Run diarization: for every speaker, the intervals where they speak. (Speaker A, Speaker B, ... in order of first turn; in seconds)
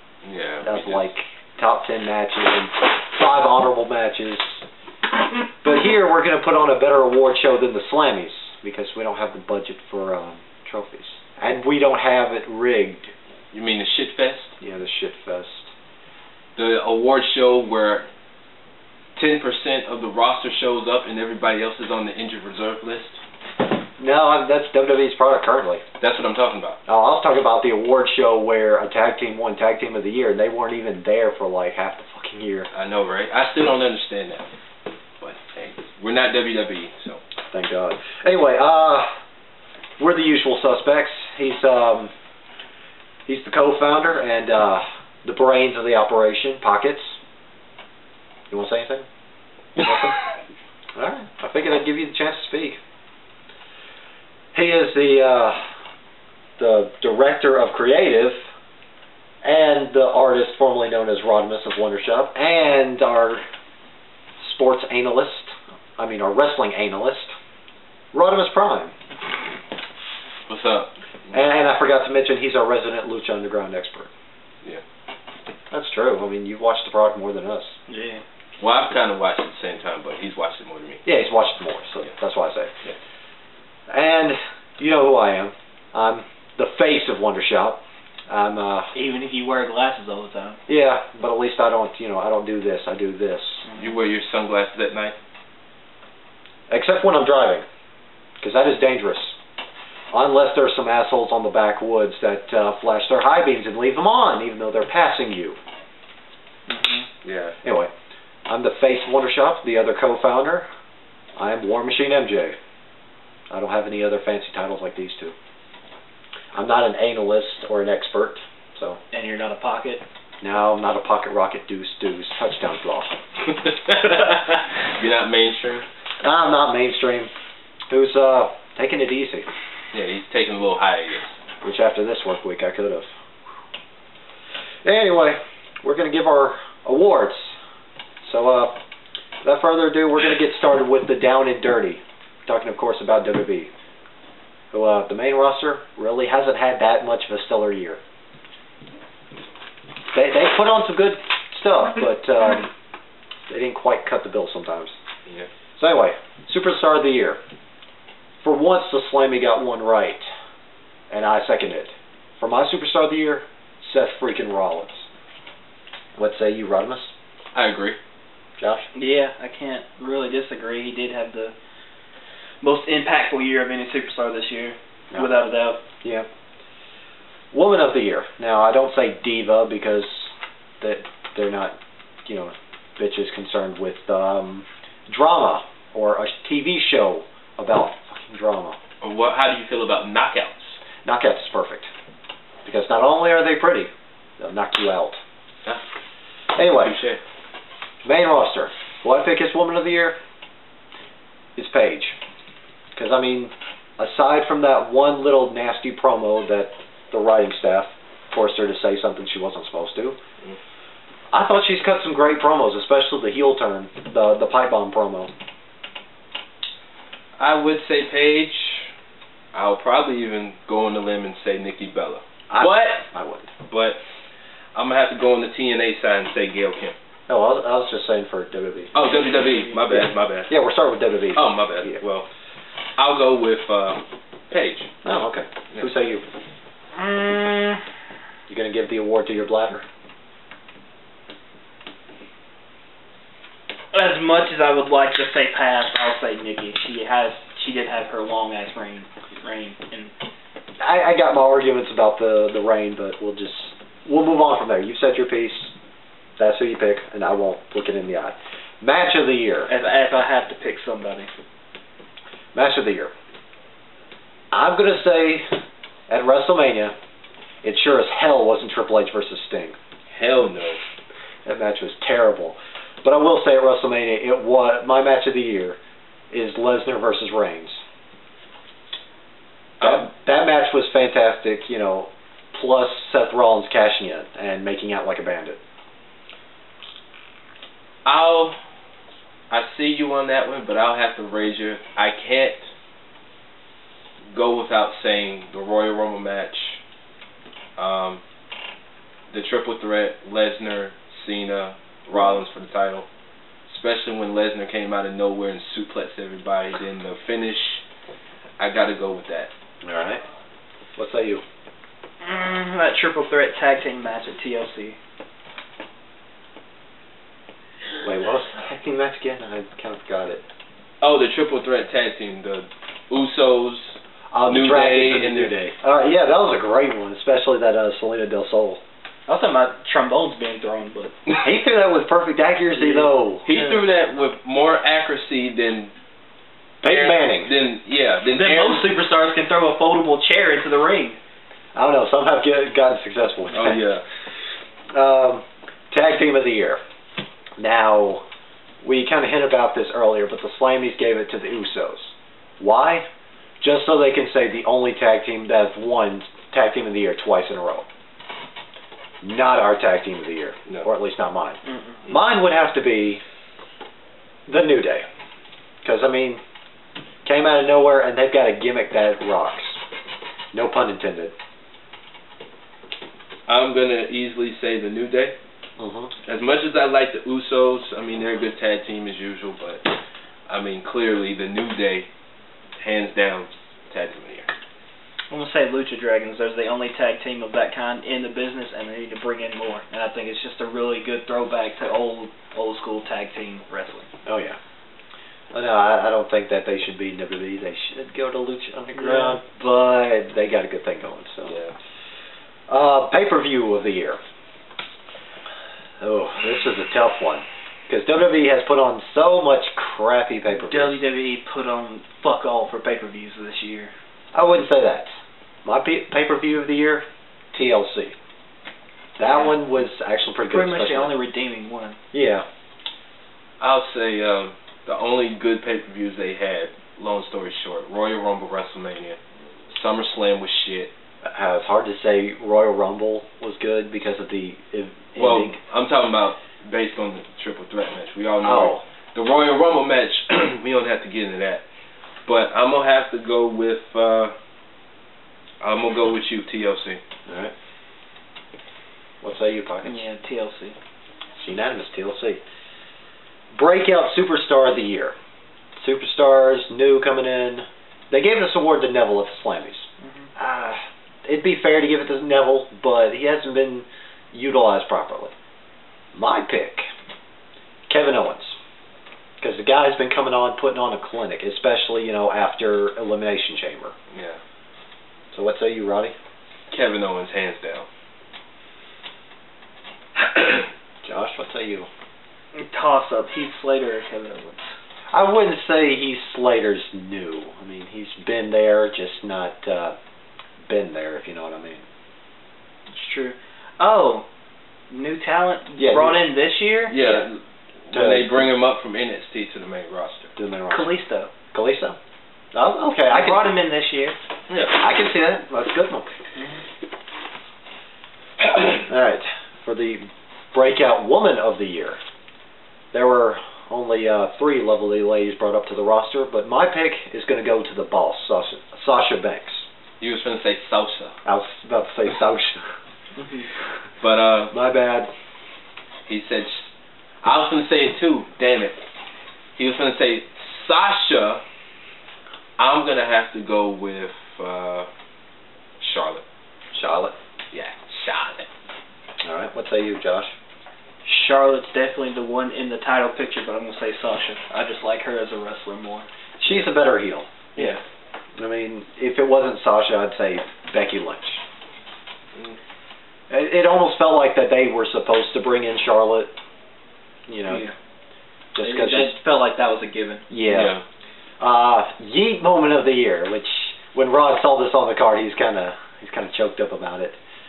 Speaker A: 0.2-1.0, 13.5-14.5, 16.6-18.1, 19.1-23.2, 26.0-26.8, 32.7-34.5, 35.2-37.2, 70.5-71.4, 78.6-81.0, 93.8-95.2, 107.2-107.6, 123.6-125.9, 129.9-131.4, 167.5-168.0, 189.0-190.8, 196.8-197.2, 217.4-218.9, 219.5-223.1, 223.7-224.0, 224.8-226.9, 228.9-230.5, 231.3-232.3, 233.0-234.9, 270.1-270.8, 288.1-288.6, 289.5-292.7, 294.3-296.8, 297.8-298.2, 299.3-303.1, 303.7-307.8, 308.6-309.5, 321.0-325.6, 333.4-335.9, 336.8-338.9, 343.5-344.1, 373.5-375.4, 376.2-379.9, 380.5-382.1, 382.8-384.5, 401.4-401.7, 423.6-429.2, 429.7-430.9, 435.1-441.6, 442.2-444.3, 445.6-447.0, 474.1-474.4, 476.7-477.9, 480.2-480.7, 496.9-500.3, 504.5-504.8, 520.0-521.1, 524.0-524.5, 526.1-528.8, 529.6-531.4, 532.6-534.9, 535.8-536.2, 537.5-538.5, 560.5-560.8
Speaker B: 0.6-4.6, 5.6-13.1, 14.6-15.7, 24.0-25.8, 26.9-32.7, 37.5-39.1, 40.0-42.1, 43.3-47.2, 48.5-49.0, 49.8-50.2, 51.0-52.8, 54.5-55.6, 56.6-58.4, 59.4-63.4, 64.4-67.3, 68.1-68.9, 71.3-74.1, 75.7-77.8, 81.0-82.7, 83.9-88.9, 90.7-93.7, 96.7-97.7, 98.4-99.4, 100.1-105.6, 107.6-107.9, 108.5-110.7, 111.4-112.6, 113.5-115.3, 116.5-119.0, 120.4-123.2, 126.2-127.3, 127.9-129.5, 131.6-133.1, 134.8-137.6, 138.2-138.8, 139.4-143.7, 144.7-148.0, 150.1-152.7, 153.5-154.9, 155.8-157.4, 158.4-160.3, 161.1-165.1, 166.2-167.1, 168.6-168.9, 176.0-176.3, 177.5-188.8, 191.0-191.9, 192.7-195.2, 196.5-197.0, 198.1-200.2, 201.6-202.2, 203.0-210.2, 211.3-215.3, 222.5-223.5, 227.3-229.2, 229.9-232.0, 235.0-236.2, 238.5-239.8, 250.8-255.7, 256.4-259.7, 262.6-263.1, 264.5-265.6, 266.1-266.9, 267.6-269.8, 271.4-275.8, 276.3-277.8, 279.8-285.6, 309.8-310.2, 311.0-311.4, 318.0-320.4, 324.3-328.8, 331.4-333.4, 336.8-337.5, 341.8-343.9, 344.9-346.8, 347.6-348.2, 348.8-353.1, 353.6-357.9, 359.2-363.2, 364.5-365.1, 365.8-366.4, 367.2-369.8, 370.5-371.4, 375.8-376.1, 394.2-394.6, 395.5-401.6, 402.7-404.2, 406.0-411.0, 414.3-415.1, 415.6-418.1, 419.2-421.1, 422.1-422.4, 431.2-435.6, 438.4-438.8, 447.3-447.5, 449.2-450.0, 451.4-452.4, 453.5-455.1, 455.8-465.3, 466.1-466.9, 467.9-468.6, 469.4-473.9, 475.3-476.1, 481.0-481.9, 485.1-489.9, 490.7-491.8, 495.8-496.3, 497.0-497.2, 497.9-498.5, 500.4-502.0, 502.5-503.5, 504.7-506.1, 508.9-512.0, 512.9-519.6, 521.2-522.7, 524.5-525.1, 536.7-537.1, 539.2-540.3, 546.4-547.8, 548.4-551.4, 553.3-556.3, 557.3-557.6, 558.5-559.1, 560.3-560.8, 561.4-567.2
Speaker C: 77.9-78.2, 88.9-90.6, 106.7-107.1, 119.1-120.0, 168.9-171.5, 172.6-175.8, 236.9-237.8, 243.9-250.1, 259.7-261.3, 312.2-315.0, 329.3-331.2, 332.8-333.8, 338.3-341.2, 361.7-362.0, 385.3-394.1, 398.9-399.4, 410.5-413.9, 419.2-419.6, 420.5-422.0, 449.9-450.8, 482.5-484.7, 492.9-494.2, 494.9-496.9, 500.7-501.3, 503.1-504.2, 523.2-523.5, 541.0-546.1, 557.5-557.7, 558.6-560.2